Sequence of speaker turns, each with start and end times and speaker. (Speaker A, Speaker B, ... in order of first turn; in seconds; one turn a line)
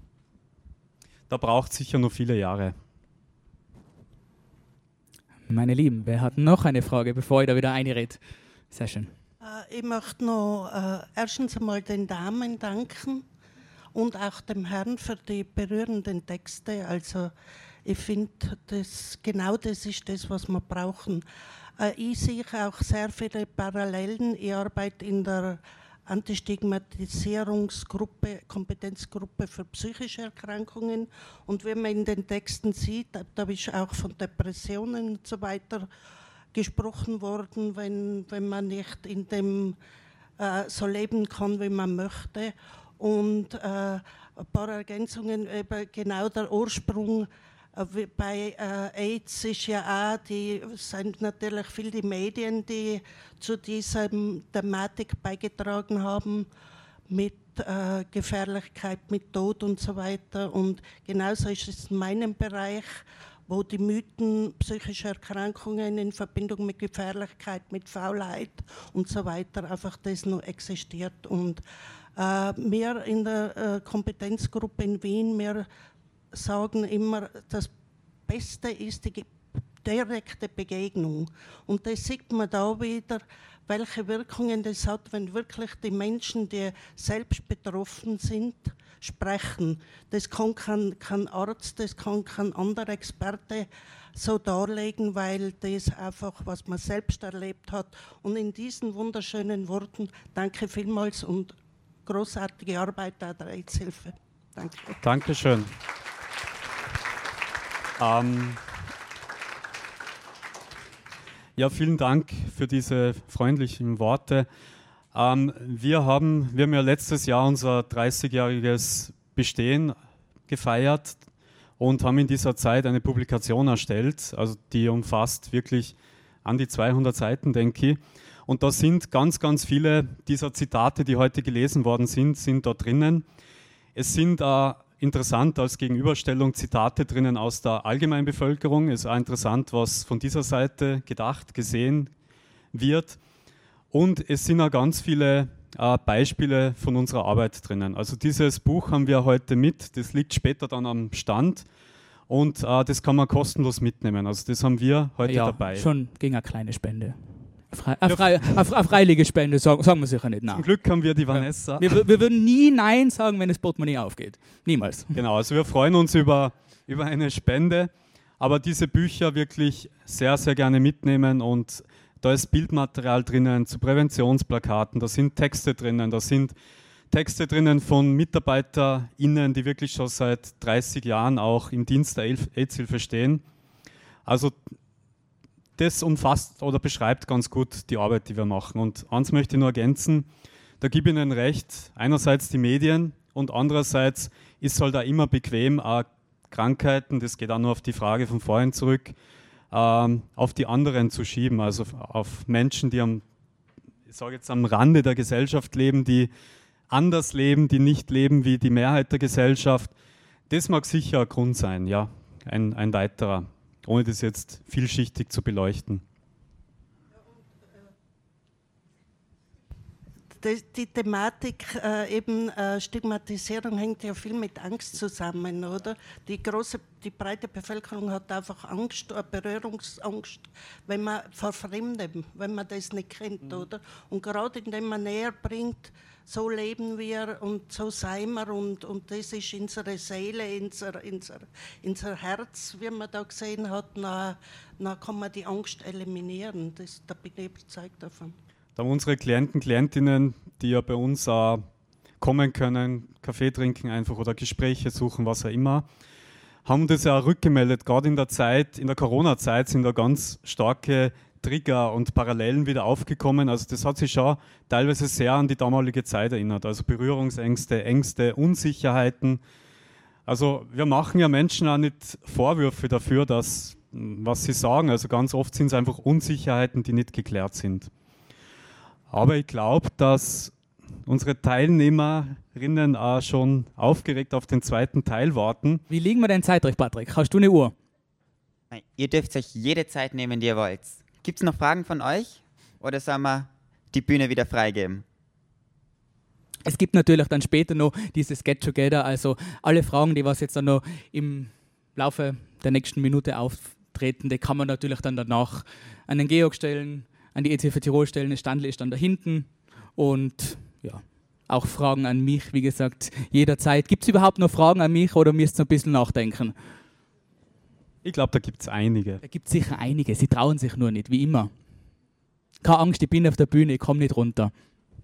Speaker A: 1.3-2.7
Speaker B: 5.5-8.2
Speaker B: 8.7-9.1
Speaker C: 9.4-13.2
Speaker C: 13.9-17.3
Speaker C: 17.8-21.2
Speaker C: 21.8-35.9
Speaker C: 36.5-39.8
Speaker C: 40.4-56.5
Speaker C: 57.1-71.6
Speaker C: 72.2-75.7
Speaker C: 76.3-77.7
Speaker C: 78.3-105.0
Speaker A: 105.0-105.7
Speaker A: 108.0-108.6
Speaker A: 111.6-114.5
Speaker A: 115.1-120.0
Speaker A: 120.5-121.2
Speaker A: 121.8-133.2
Speaker A: 133.9-142.1
Speaker A: 142.7-143.2
Speaker A: 143.9-151.7
Speaker A: 152.3-155.9
Speaker B: 155.2-160.7
Speaker A: 158.1-158.6
Speaker A: 160.5-162.0
Speaker B: 161.3-165.2
Speaker A: 165.1-176.5
Speaker A: 177.1-183.4
Speaker A: 184.2-184.6
Speaker A: 185.8-190.3
Speaker A: 190.8-199.1
Speaker A: 199.7-203.2
Speaker A: 204.1-206.3
Speaker A: 206.9-209.9
Speaker A: 210.5-216.0
Speaker C: 220.4-248.3
Speaker A: 248.8-251.6
Speaker A: 252.2-255.8
Speaker A: 256.6-269.4
Speaker A: 270.3-277.9
Speaker A: 279.1-280.5
Speaker A: 281.1-285.8
Speaker B: 285.9-287.7
Speaker D: 288.7-295.0
Speaker B: 296.6-316.5
Speaker A: 318.0-319.2
Speaker B: 319.2-321.5
Speaker B: 322.6-324.5